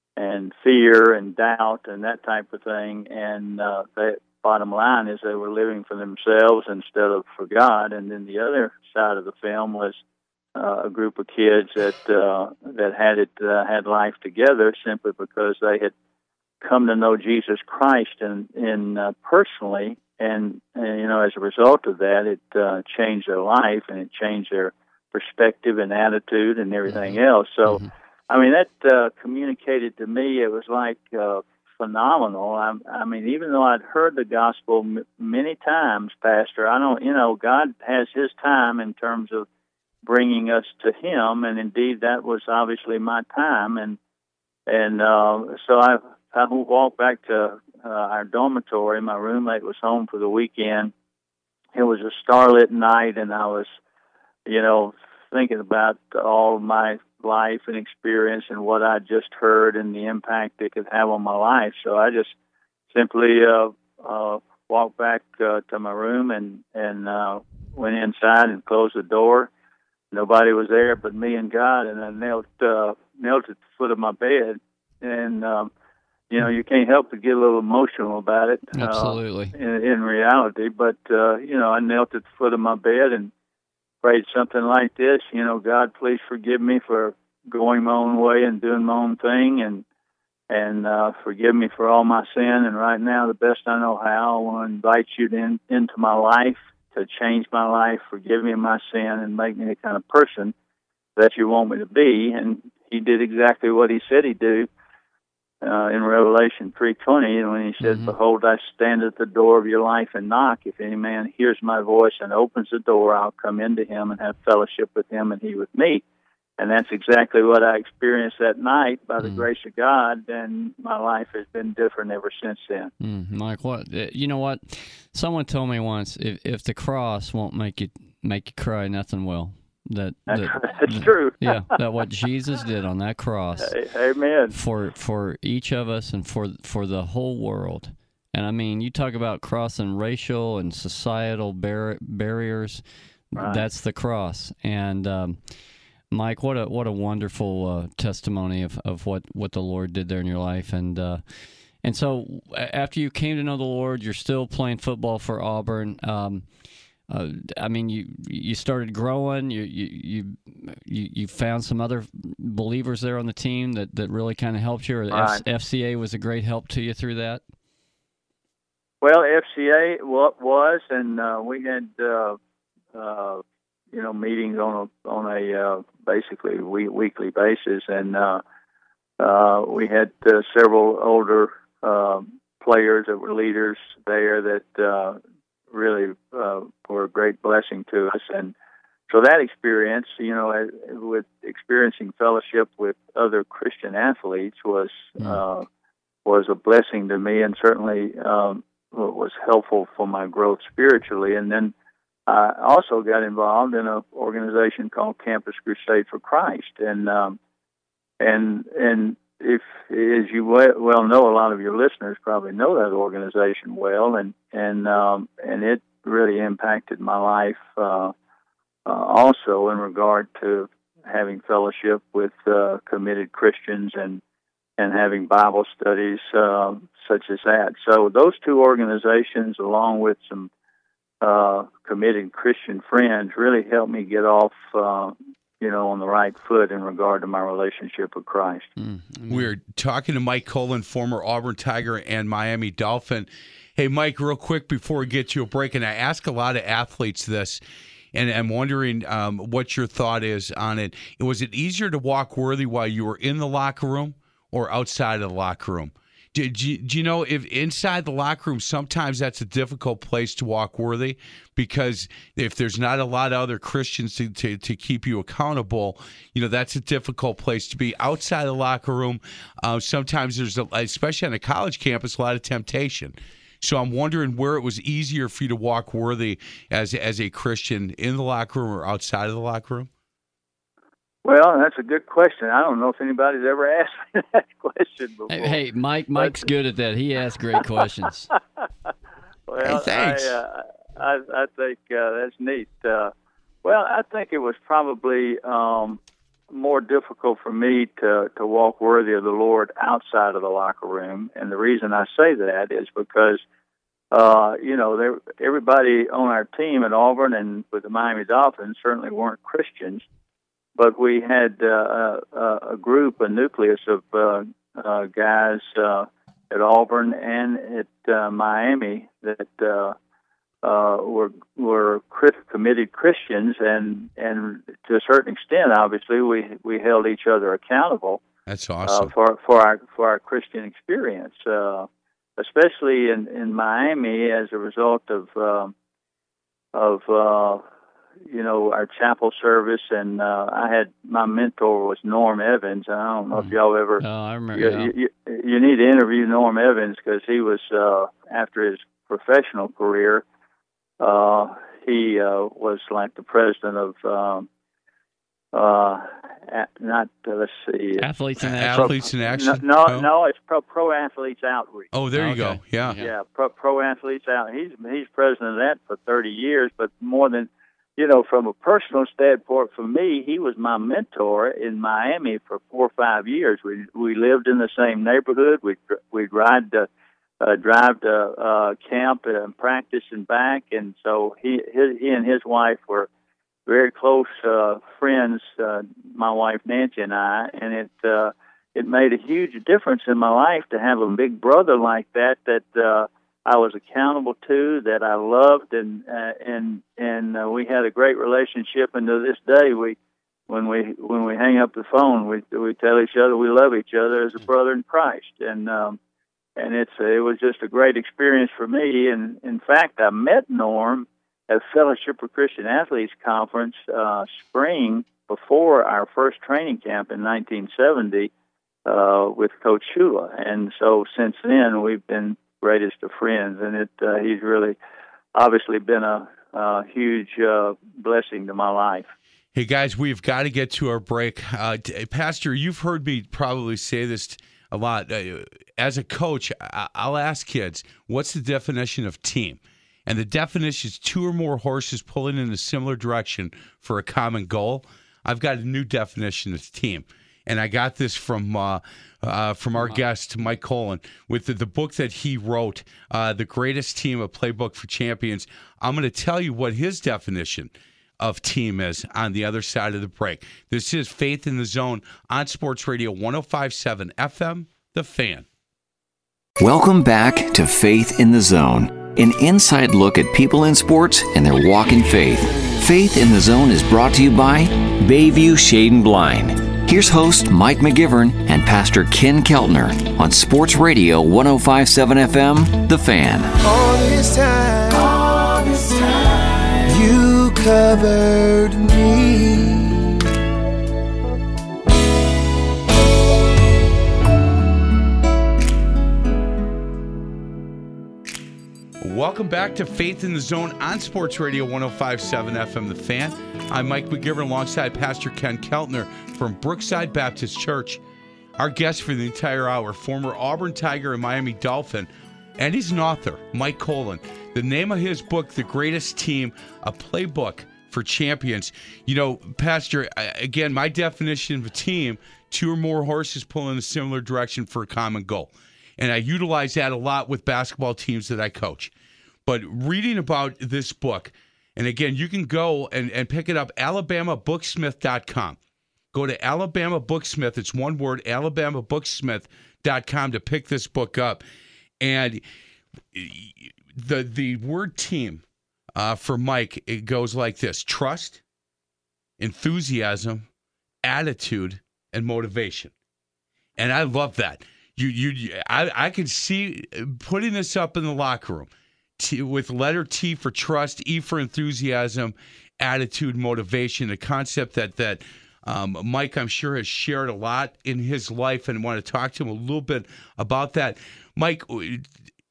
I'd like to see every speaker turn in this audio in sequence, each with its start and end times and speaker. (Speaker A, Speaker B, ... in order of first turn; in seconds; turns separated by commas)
Speaker A: 0.2-10.0, Speaker A: 10.6-15.9, Speaker A: 16.6-39.5, Speaker B: 26.9-27.9, Speaker A: 40.0-44.0, Speaker A: 44.7-50.9, Speaker A: 51.8-53.7, Speaker A: 54.5-62.3, Speaker A: 62.9-69.5, Speaker A: 70.1-75.7, Speaker A: 76.3-83.3, Speaker B: 78.8-79.5, Speaker A: 84.0-89.8, Speaker A: 90.5-100.5, Speaker A: 101.2-104.7, Speaker A: 105.6-116.0, Speaker B: 107.8-108.1, Speaker A: 116.6-122.9, Speaker B: 119.2-119.5, Speaker B: 123.0-133.8, Speaker A: 130.3-131.6, Speaker A: 133.6-134.6, Speaker B: 134.5-145.4, Speaker A: 143.4-143.7, Speaker B: 146.1-156.5, Speaker B: 157.1-167.4, Speaker A: 165.1-165.4, Speaker A: 169.0-172.4, Speaker A: 172.9-178.4, Speaker A: 179.2-185.2, Speaker A: 185.7-188.5, Speaker A: 189.1-195.7, Speaker A: 196.2-201.7, Speaker A: 202.3-207.4, Speaker A: 208.2-218.1, Speaker A: 218.9-224.2, Speaker A: 224.8-230.5, Speaker A: 231.2-238.7, Speaker B: 238.8-239.5, Speaker C: 239.3-247.6, Speaker C: 248.1-279.9, Speaker A: 281.2-285.6, Speaker B: 285.3-288.3, Speaker A: 286.2-286.5, Speaker A: 289.5-293.1, Speaker C: 289.6-290.4, Speaker A: 293.6-296.0, Speaker A: 296.5-303.4, Speaker A: 304.1-310.1, Speaker A: 310.8-320.0, Speaker A: 320.6-328.2, Speaker C: 328.5-329.1, Speaker A: 328.9-335.7, Speaker A: 336.7-337.6, Speaker A: 338.3-344.0, Speaker B: 343.4-344.9, Speaker A: 344.6-350.2, Speaker A: 351.0-354.5, Speaker A: 355.5-358.1, Speaker B: 358.0-359.0, Speaker C: 358.4-360.1, Speaker A: 358.8-361.9, Speaker C: 361.9-363.0, Speaker B: 362.1-363.1, Speaker A: 363.0-376.9, Speaker A: 377.4-383.1, Speaker A: 383.7-400.0, Speaker A: 400.5-406.0, Speaker A: 406.6-418.3, Speaker A: 418.9-424.8, Speaker A: 425.4-429.1, Speaker C: 429.5-465.5, Speaker D: 466.6-483.5, Speaker E: 483.6-490.2, Speaker C: 499.0-508.0, Speaker C: 508.6-528.9, Speaker C: 529.5-535.6, Speaker C: 536.1-541.4, Speaker C: 542.0-542.4, Speaker C: 543.1-545.4, Speaker C: 546.0-548.4, Speaker C: 549.4-550.5, Speaker C: 551.0-552.9, Speaker C: 553.8-572.1